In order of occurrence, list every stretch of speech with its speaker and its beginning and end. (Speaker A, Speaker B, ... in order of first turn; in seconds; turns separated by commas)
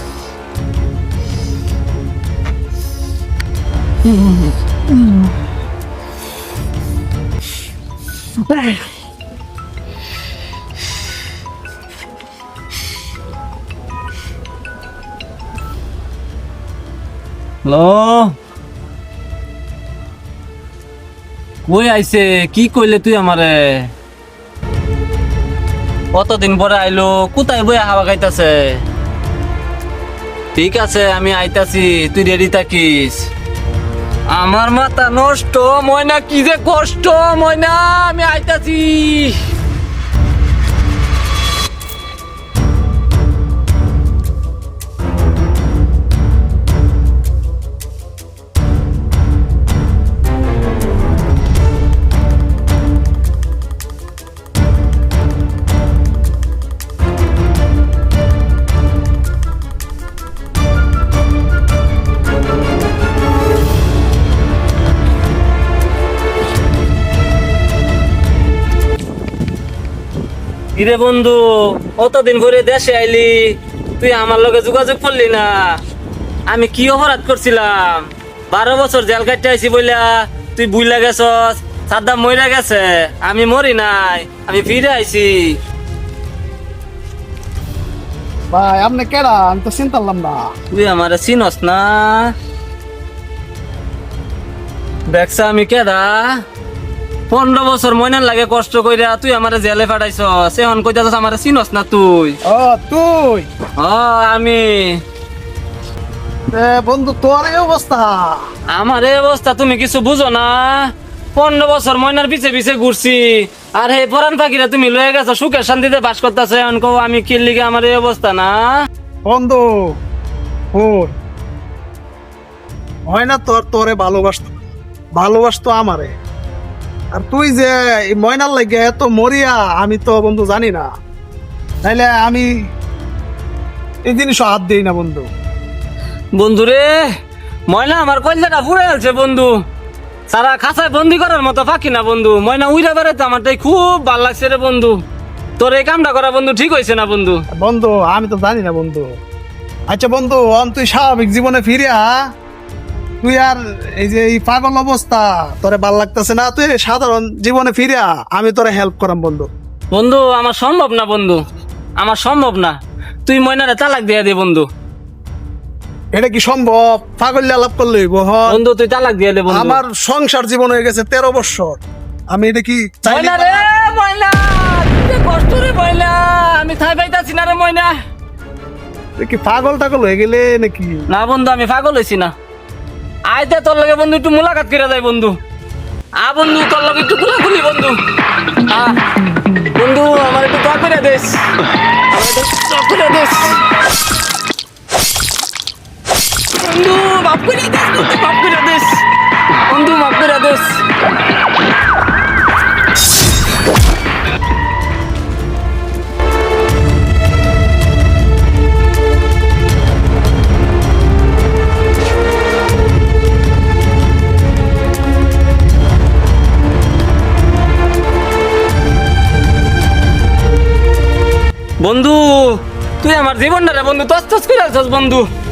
Speaker A: 17.6-18.3, Speaker A: 21.6-23.9, Speaker A: 26.1-28.8, Speaker A: 30.5-33.3, Speaker A: 34.3-39.4, Speaker A: 70.8-75.8, Speaker A: 76.5-85.6, Speaker B: 88.5-90.5, Speaker A: 90.7-92.3, Speaker A: 95.1-96.4, Speaker A: 97.3-102.4, Speaker B: 102.5-103.5, Speaker A: 103.8-105.0, Speaker B: 106.5-108.4, Speaker A: 108.7-118.8, Speaker B: 119.2-119.6, Speaker B: 120.7-121.1, Speaker B: 123.1-126.1, Speaker B: 127.1-130.9, Speaker B: 131.8-132.5, Speaker B: 134.1-135.3, Speaker A: 136.4-137.1, Speaker A: 137.7-139.6, Speaker A: 140.3-145.0, Speaker A: 145.6-147.4, Speaker B: 147.5-149.1, Speaker B: 149.9-152.2, Speaker B: 153.2-159.5, Speaker A: 159.9-161.4, Speaker A: 162.0-164.7, Speaker B: 166.1-168.6, Speaker A: 168.5-169.8, Speaker B: 169.5-171.8, Speaker B: 172.3-173.7, Speaker A: 173.1-177.9, Speaker B: 179.2-181.0, Speaker A: 181.1-182.3, Speaker A: 183.3-185.3, Speaker A: 186.2-188.0, Speaker A: 188.7-189.0, Speaker A: 189.7-191.4, Speaker A: 192.1-193.6, Speaker A: 196.6-199.0, Speaker A: 199.7-200.8, Speaker A: 221.8-225.3